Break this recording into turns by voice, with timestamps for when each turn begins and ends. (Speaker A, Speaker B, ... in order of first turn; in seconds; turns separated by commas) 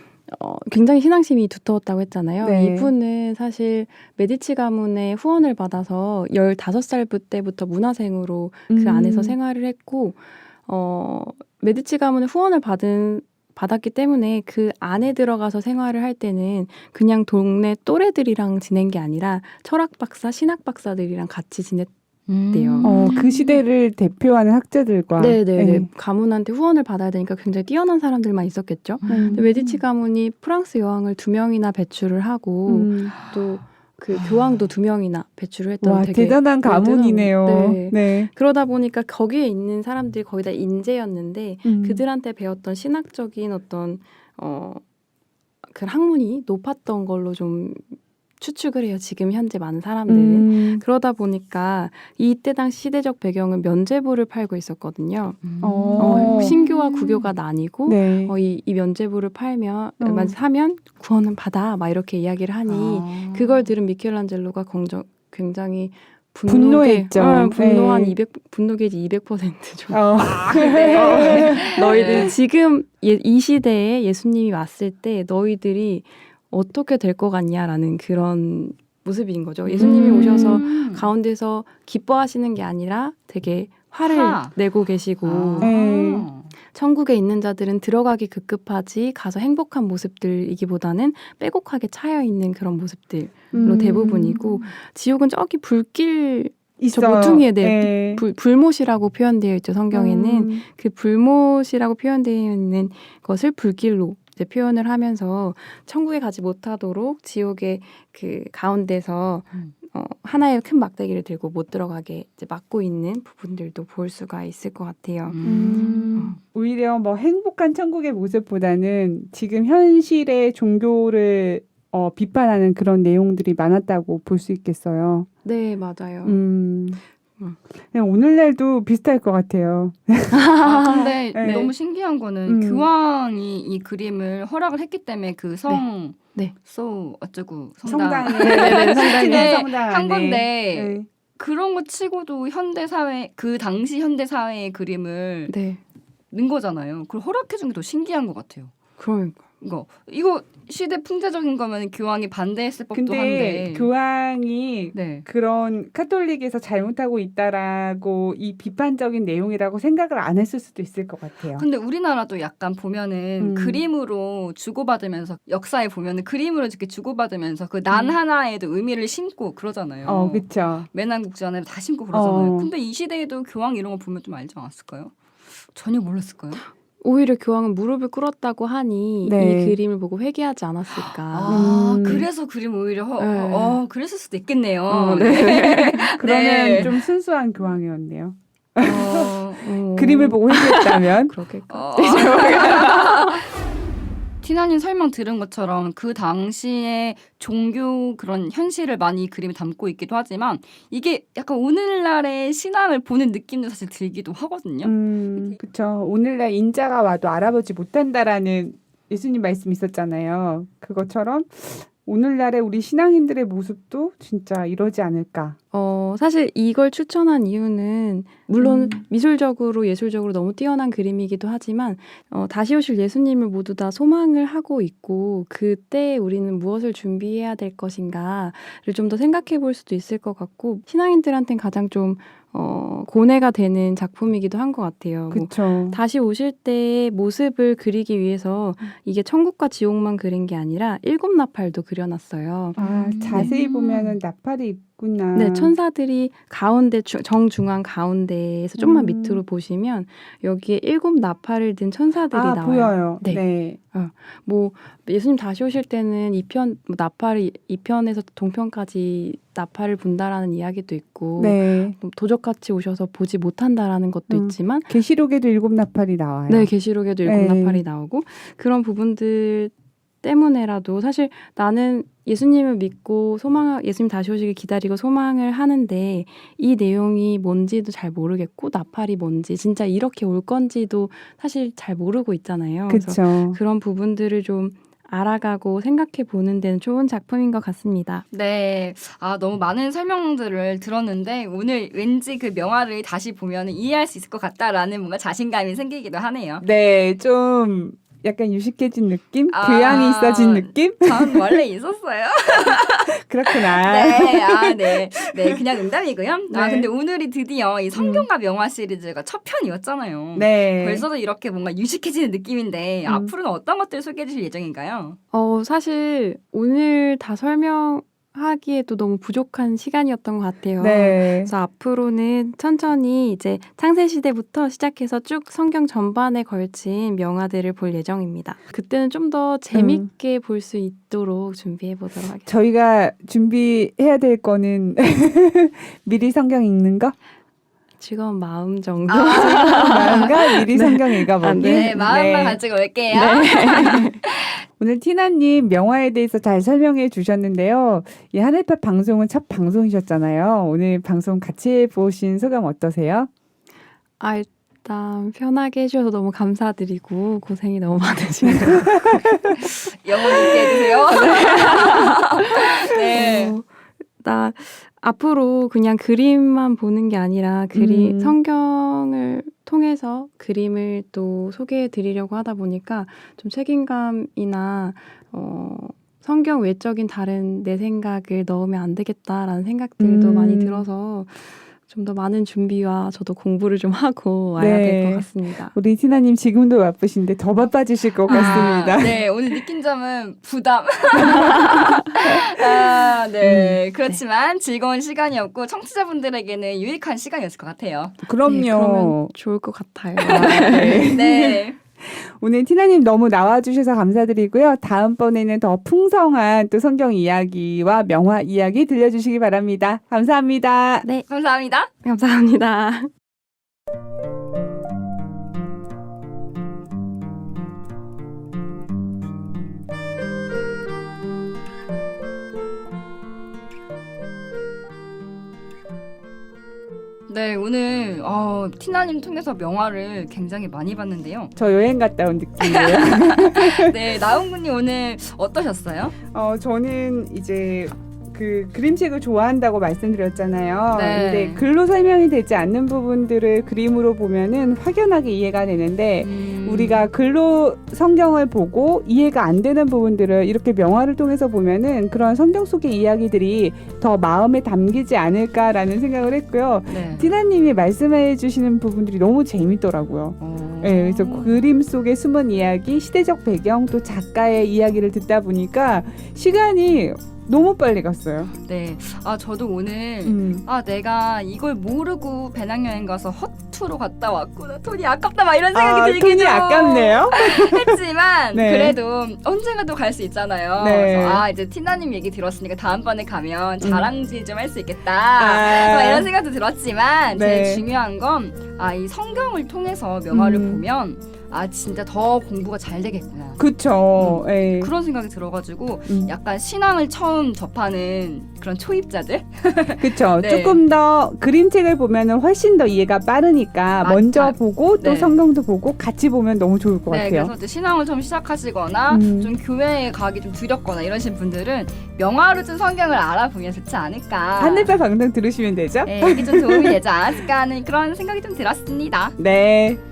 Speaker A: 0.3-21.9, Speaker B: 2.4-2.9, Speaker B: 8.7-9.3, Speaker C: 22.3-23.5, Speaker A: 22.5-23.1, Speaker B: 22.8-25.9, Speaker A: 25.2-44.8, Speaker C: 29.0-29.8, Speaker B: 29.1-29.4, Speaker B: 32.6-33.1, Speaker C: 34.1-34.7, Speaker B: 35.8-38.3, Speaker B: 41.6-42.0, Speaker A: 45.6-55.4, Speaker B: 50.1-50.8, Speaker C: 55.4-57.3, Speaker B: 55.6-56.5, Speaker A: 56.0-85.7, Speaker B: 57.9-58.3, Speaker B: 60.0-60.3, Speaker C: 62.6-63.7, Speaker B: 66.5-68.2, Speaker B: 69.9-72.3, Speaker C: 70.2-72.3, Speaker C: 79.7-81.1, Speaker B: 79.8-80.6, Speaker C: 84.0-84.5, Speaker C: 85.2-86.5, Speaker B: 85.6-86.3, Speaker A: 86.7-115.4, Speaker B: 93.5-94.4, Speaker B: 96.8-98.2, Speaker B: 99.9-100.6, Speaker C: 115.3-116.3, Speaker B: 115.4-125.3, Speaker A: 125.4-126.4, Speaker B: 126.2-127.0, Speaker B: 127.8-130.4, Speaker A: 130.3-131.6, Speaker C: 130.6-145.5, Speaker B: 131.3-131.7, Speaker B: 132.4-132.9, Speaker B: 137.8-141.1, Speaker A: 138.4-139.5, Speaker A: 145.5-145.8, Speaker C: 146.3-148.7, Speaker A: 149.0-149.4, Speaker C: 149.6-153.9, Speaker B: 152.9-161.6, Speaker C: 154.9-155.2, Speaker C: 161.6-175.1, Speaker B: 163.4-163.8, Speaker B: 170.1-170.9, Speaker B: 172.1-172.7, Speaker C: 175.7-176.6, Speaker A: 177.0-181.8, Speaker B: 179.2-179.8, Speaker C: 181.0-187.0, Speaker B: 181.5-182.2, Speaker A: 183.2-183.8, Speaker A: 184.9-186.2, Speaker B: 186.2-189.4, Speaker C: 188.8-189.6, Speaker A: 189.6-193.4, Speaker B: 189.9-191.3, Speaker C: 191.7-193.5, Speaker C: 194.4-205.6, Speaker B: 204.8-215.6, Speaker A: 215.7-242.8, Speaker B: 218.6-219.0, Speaker B: 235.3-236.0, Speaker B: 242.8-245.7, Speaker C: 242.8-244.2, Speaker A: 245.3-264.9, Speaker B: 248.8-249.4, Speaker B: 252.3-253.8, Speaker B: 261.4-261.9, Speaker B: 264.3-266.7, Speaker A: 266.5-269.7, Speaker B: 267.2-267.8, Speaker A: 270.2-288.2, Speaker B: 282.9-283.6, Speaker C: 288.3-296.6, Speaker B: 296.6-301.6, Speaker C: 299.5-315.2, Speaker B: 302.7-305.6, Speaker B: 306.5-306.9, Speaker B: 307.9-308.3, Speaker B: 310.4-311.1, Speaker B: 313.1-313.3, Speaker A: 315.3-332.5, Speaker B: 320.8-321.5, Speaker B: 329.7-330.1, Speaker B: 332.4-337.1, Speaker A: 338.0-342.1, Speaker C: 339.1-340.3, Speaker B: 339.3-342.6, Speaker C: 341.6-344.6, Speaker A: 343.1-344.2, Speaker B: 344.8-353.3, Speaker A: 354.2-359.5, Speaker B: 358.5-359.6, Speaker C: 359.6-363.5, Speaker B: 361.2-361.9, Speaker A: 361.2-362.1, Speaker A: 363.1-363.7, Speaker A: 364.2-385.8, Speaker B: 367.7-368.4, Speaker B: 380.0-380.9, Speaker B: 384.6-389.2, Speaker C: 388.3-398.2, Speaker A: 391.6-392.1, Speaker B: 392.2-392.9, Speaker B: 398.2-399.3, Speaker A: 398.4-401.1, Speaker C: 400.2-401.8, Speaker B: 400.2-411.0, Speaker C: 411.3-411.9, Speaker A: 412.0-413.1, Speaker C: 427.3-431.5, Speaker B: 431.6-434.2, Speaker C: 432.6-436.1, Speaker B: 436.3-468.5, Speaker C: 440.9-441.6, Speaker C: 446.2-447.0, Speaker C: 456.9-457.3, Speaker C: 460.4-461.7, Speaker C: 468.6-493.6, Speaker B: 470.2-470.6, Speaker B: 475.7-478.0, Speaker B: 478.5-479.0, Speaker B: 480.8-481.4, Speaker B: 483.8-484.1, Speaker B: 485.4-486.3, Speaker B: 487.3-487.8, Speaker B: 490.3-490.8, Speaker B: 493.6-494.9, Speaker C: 494.2-500.8, Speaker B: 496.1-496.3, Speaker B: 500.0-507.5, Speaker C: 504.0-505.4, Speaker C: 507.1-514.9, Speaker B: 509.1-509.5, Speaker B: 514.6-517.4, Speaker C: 516.0-519.4, Speaker B: 519.4-520.0